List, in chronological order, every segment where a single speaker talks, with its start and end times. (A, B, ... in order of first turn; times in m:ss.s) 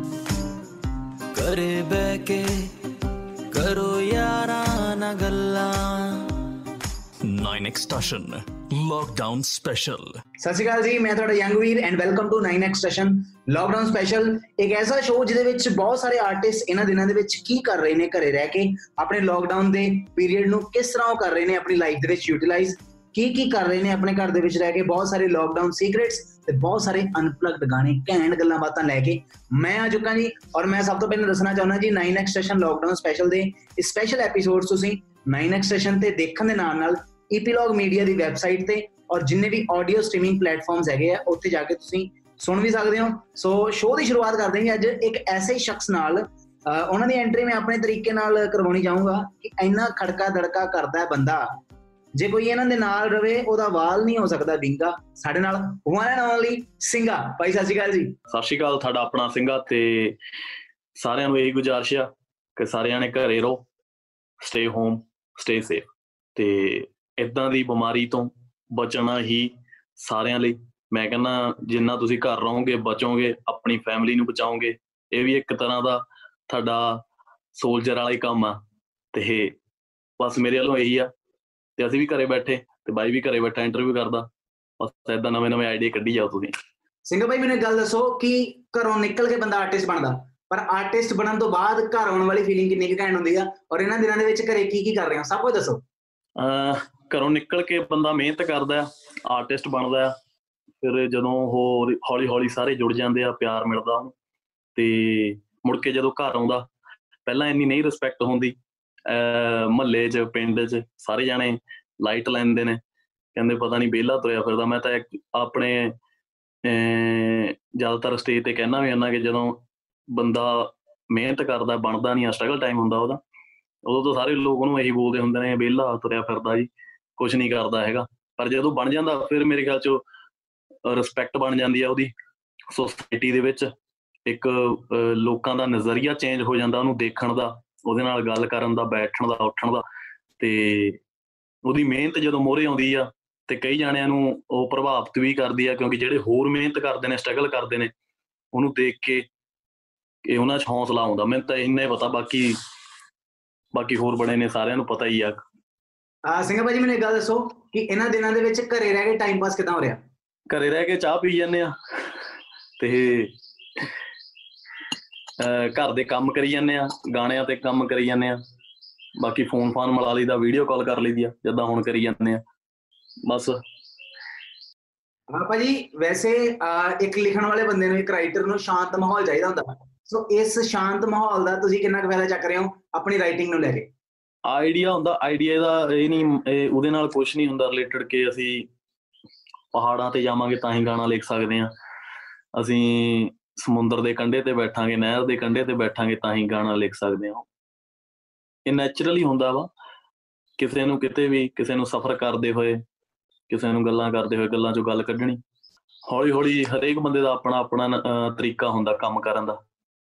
0:01.3-0:06.6 A
0:07.2-0:10.2 B
0:10.4-0:51.6 C
0:52.2-0:58.1 C
0:58.3-1:00.2 D
1:00.9-1:03.6 D
1:04.4-1:17.0 D
1:17.5-1:18.6 D
1:19.1-1:19.5 D
1:20.2-1:21.1 D
1:21.8-1:24.3 D
1:24.8-1:26.5 D
1:27.1-1:35.8 C
1:36.4-1:40.1 D
1:40.8-1:44.1 D
1:44.7-1:46.7 D
1:47.2-1:52.8 D
1:53.3-1:56.0 D
1:56.6-1:59.6 D
2:00.1-2:03.2 D
2:03.8-2:10.0 D
2:10.8-2:12.1 D
2:12.7-2:13.7 D
2:14.2-2:19.8 D
2:20.4-2:21.0 D
2:21.6-2:27.9 D
2:28.5-2:29.2 D
2:30.2-2:32.6 D
2:33.7-2:35.4 D
2:36.2-2:40.0 C
2:40.5-2:42.2 D
2:42.8-2:43.9 D
2:45.4-2:48.4 D
2:49.2-2:52.4 D
2:53.2-2:53.6 D
2:55.3-3:03.9 C
3:04.4-3:08.7 D
3:09.7-3:11.7 D
3:12.6-3:17.4 D
3:18.6-3:19.7 D
3:20.6-3:22.8 D
3:23.5-3:25.4 D
3:26.1-3:29.6 D